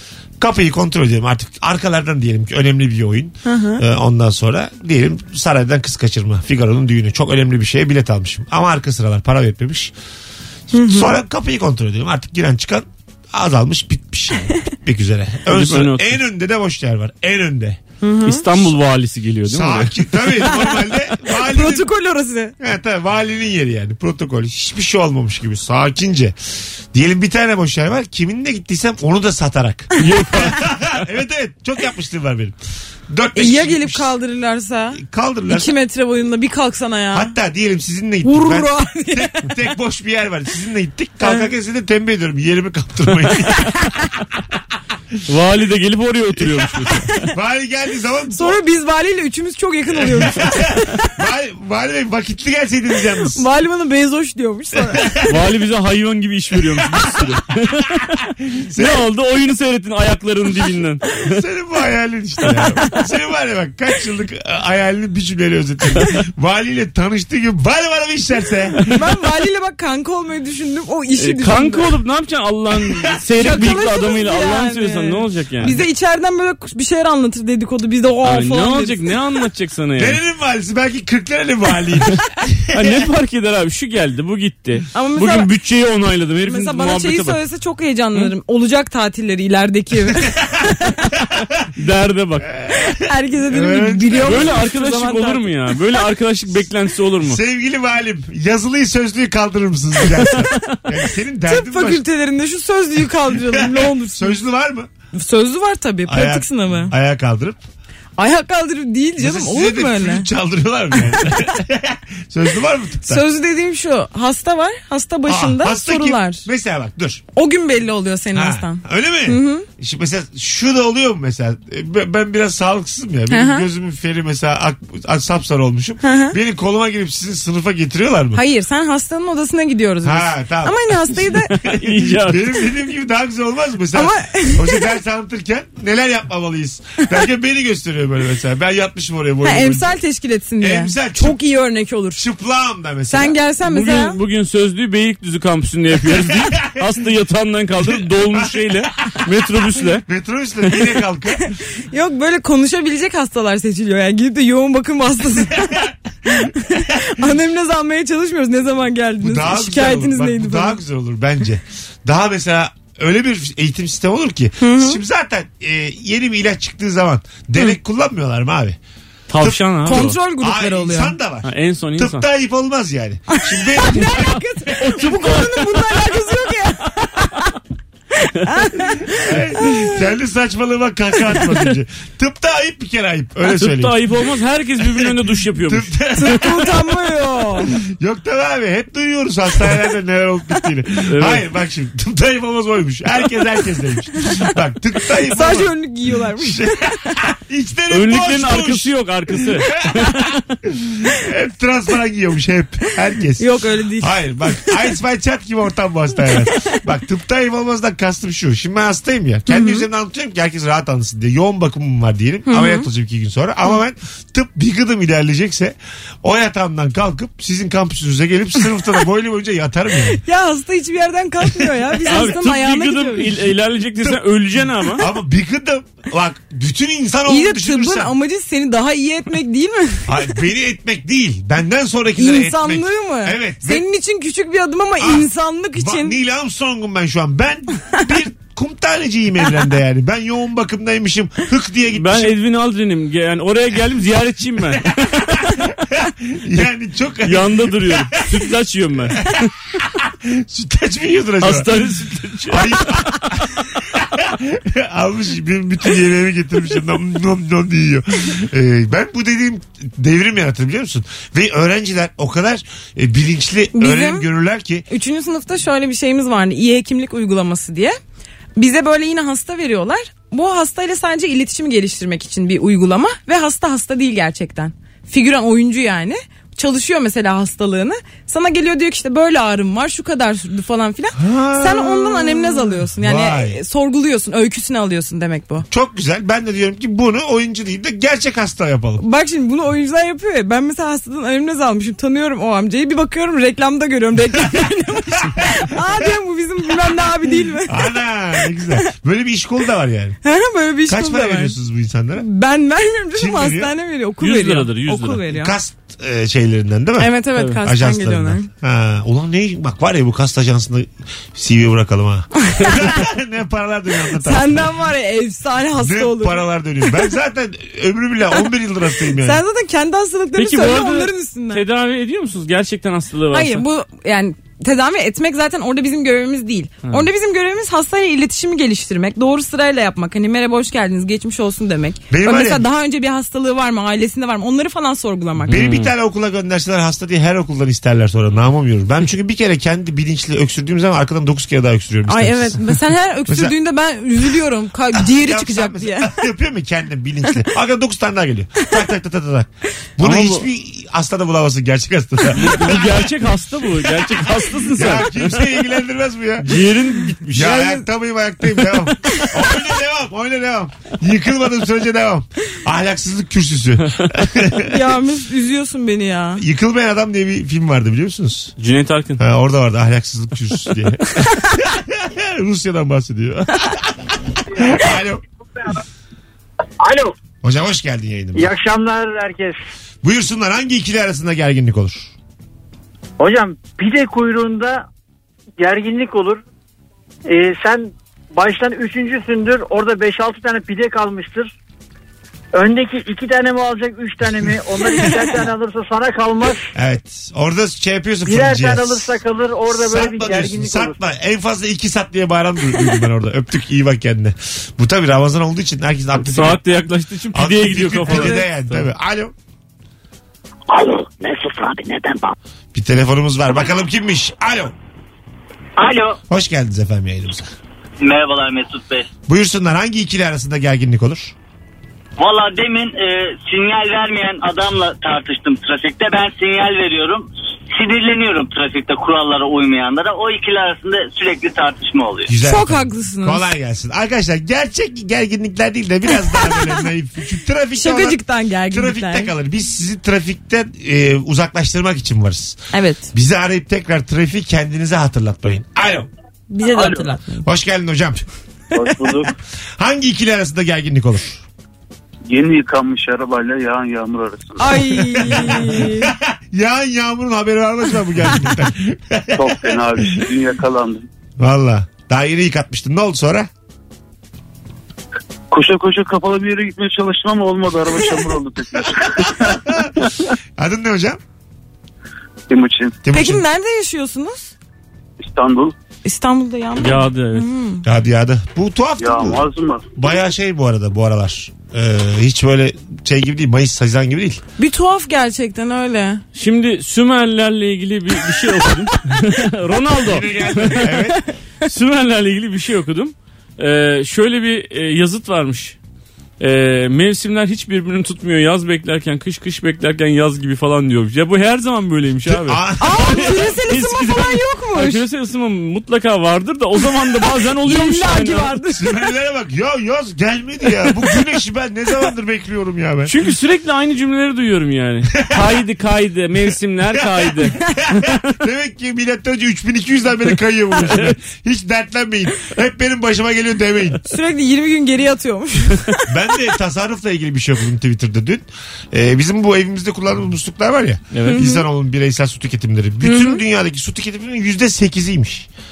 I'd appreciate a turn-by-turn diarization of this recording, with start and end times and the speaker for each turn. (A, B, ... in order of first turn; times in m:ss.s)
0:00.4-0:09.9 A
0:03.4-0:03.8 B
0:10.7-0:11.1 B
0:10.7-0:17.8 A
0:15.4-0:16.2 C
0:18.0-0:18.4 B
0:18.2-0:20.0 C
0:19.4-0:21.9 A
0:20.4-0:22.5 B
0:22.6-0:26.4 A
0:26.9-0:32.6 A
0:30.0-0:30.7 C
0:33.1-0:34.1 A
0:33.3-0:35.0 B
0:34.9-0:35.7 A
0:35.5-0:37.3 B
0:37.1-0:44.0 A
0:38.2-0:39.5 B
0:45.3-0:47.3 C
0:46.6-0:48.6 A
0:48.3-0:51.0 B
0:49.9-0:53.4 A
0:53.3-0:55.1 B
0:54.9-0:55.4 A
0:55.3-0:58.1 C
0:58.5-0:59.0 A
0:58.8-1:01.4 C
1:01.2-1:09.0 A
1:08.9-1:11.9 B
1:11.2-1:15.8 C
1:13.4-1:19.1 B
1:18.2-1:20.2 C
1:20.0-1:23.0 A
1:22.7-1:27.4 C
1:24.9-1:25.5 B
1:26.4-1:31.0 B
1:31.8-1:32.6 C
1:32.6-1:34.6 A
1:33.0-1:35.6 B
1:34.2-1:37.4 C
1:37.2-1:42.0 A
1:41.5-1:44.4 B
1:43.4-1:44.9 A
1:45.1-1:46.9 B
1:46.1-1:47.6 A
1:48.2-1:50.3 B
1:49.2-1:53.2 A
1:50.9-1:51.4 B
1:53.1-1:56.4 B
1:55.2-1:57.2 A
1:57.3-1:59.7 B
1:58.3-2:08.4 A
2:03.3-2:03.7 B
2:06.0-2:06.4 B
2:08.3-2:11.5 B
2:10.0-2:20.0 A
2:11.5-2:12.6 C
2:13.9-2:14.9 B
2:19.4-2:22.2 B
2:20.6-2:21.4 A
2:22.2-2:23.4 A
2:23.1-2:24.2 B
2:23.6-2:30.0 C
2:26.2-2:26.8 A
2:27.8-2:29.1 A
2:30.0-2:31.5 A
2:31.9-2:40.8 B
2:35.5-2:37.1 A
2:39.2-2:48.8 A
2:44.6-2:45.0 B
2:49.3-2:50.2 C
2:49.4-2:54.4 A
2:49.8-2:51.1 B
2:51.4-2:52.2 C
2:53.3-2:57.5 B
2:54.8-2:56.2 C
2:58.2-3:00.0 B
2:59.2-3:04.0 A
3:03.4-3:06.2 C
3:04.8-3:06.7 A
3:06.2-3:07.7 B
3:07.7-3:15.7 A
3:11.1-3:11.4 C
3:15.3-3:17.2 B
3:16.4-3:18.9 A
3:17.9-3:20.4 C
3:19.8-3:23.4 A
3:23.4-3:24.8 B
3:24.0-3:40.2 A
3:29.5-3:29.8 B
3:32.4-3:32.9 B
3:40.2-3:43.3 B
3:42.0-3:45.0 C
3:44.9-3:48.1 A
3:47.3-3:50.1 B
3:50.1-3:53.8 A
3:52.2-3:56.2 B
3:55.0-4:02.3 A
4:01.9-4:05.6 C
4:05.9-4:08.5 A
4:07.2-4:09.5 C
4:09.3-4:11.8 A
4:11.4-4:13.0 C
4:12.5-4:24.8 A
4:23.7-4:24.2 B
4:24.9-4:28.0 B
4:28.6-4:45.6 B
4:41.2-4:43.6 A
4:45.7-4:49.0 A
4:49.0-4:58.8 B
4:55.2-4:55.9 A
4:57.6-5:00.2 A
5:00.2-5:01.5 B
5:00.9-5:02.2 A
5:02.2-5:05.5 B
5:03.1-5:03.7 A
5:04.2-5:05.2 C
5:05.3-5:14.7 A
5:07.0-5:08.5 B
5:12.4-5:13.0 B
5:14.2-5:16.4 B
5:15.8-5:19.4 A
5:19.2-5:21.6 B
5:20.3-5:23.6 C
5:23.3-5:35.6 B
5:32.1-5:32.6 A
5:35.5-5:35.9 C
5:35.5-5:43.5 A
5:42.1-5:46.1 B
5:44.9-5:53.2 A
5:50.0-5:50.4 C
5:52.3-5:55.4 C
5:53.8-5:56.6 A
5:56.4-5:57.4 C
5:57.3-6:04.8 A
5:57.4-5:57.8 B
6:04.6-6:06.4 B
6:06.4-6:08.5 A
6:08.6-6:09.2 C
6:09.2-6:15.2 A
6:16.8-6:17.1 D
6:17.4-6:18.5 A
6:18.3-6:19.6 D
6:20.0-6:22.1 A
6:23.2-6:24.8 D
6:25.6-6:26.4 D
6:27.2-6:31.5 D
6:32.5-6:36.6 D
6:36.7-6:39.1 A
6:38.2-6:41.0 D
6:39.7-6:46.6 A
6:46.2-6:48.8 C
6:47.3-6:49.3 A
6:52.7-6:54.7 A
6:55.8-6:56.2 E
6:56.3-6:57.5 A
6:58.0-6:59.1 E
6:59.3-7:01.3 A
7:02.2-7:12.3 E
7:12.3-7:18.2 A
7:12.4-7:13.4 B
7:16.4-7:16.6 B
7:17.7-7:19.3 B
7:18.7-7:22.6 A
7:22.7-7:23.1 B
7:23.1-7:26.1 A
7:26.5-7:27.5 B
7:26.6-7:27.0 F
7:27.4-7:28.2 A
7:28.7-7:29.3 F
7:29.8-7:31.4 A
7:32.3-7:35.2 F
7:34.6-7:36.1 B
7:35.2-7:39.6 A
7:39.3-7:41.1 F
7:41.4-7:43.5 A
7:45.5-7:50.3 F
7:49.4-7:49.9 A
7:50.6-7:51.2 A
7:52.5-7:53.0 F
7:53.0-7:53.4 A
7:53.1-7:54.5 B
7:55.2-7:55.7 F
7:56.0-7:57.8 B
7:56.8-7:57.5 C
7:57.8-7:59.4 A
7:59.0-7:59.9 F
7:59.9-8:04.4 A
8:04.6-8:06.2 B
8:06.3-8:15.8 C
8:10.0-8:11.2 A
8:16.4-8:28.5 C
8:22.2-8:23.5 A
8:22.8-8:25.0 B
8:27.6-8:28.9 B
8:28.8-8:33.1 A
8:33.0-8:38.2 C
8:36.9-8:44.0 A
8:40.9-8:41.1 C
8:44.0-8:46.1 B
8:46.1-8:55.5 A
8:51.1-8:51.4 C
8:51.3-8:51.6 B
8:53.0-8:53.4 B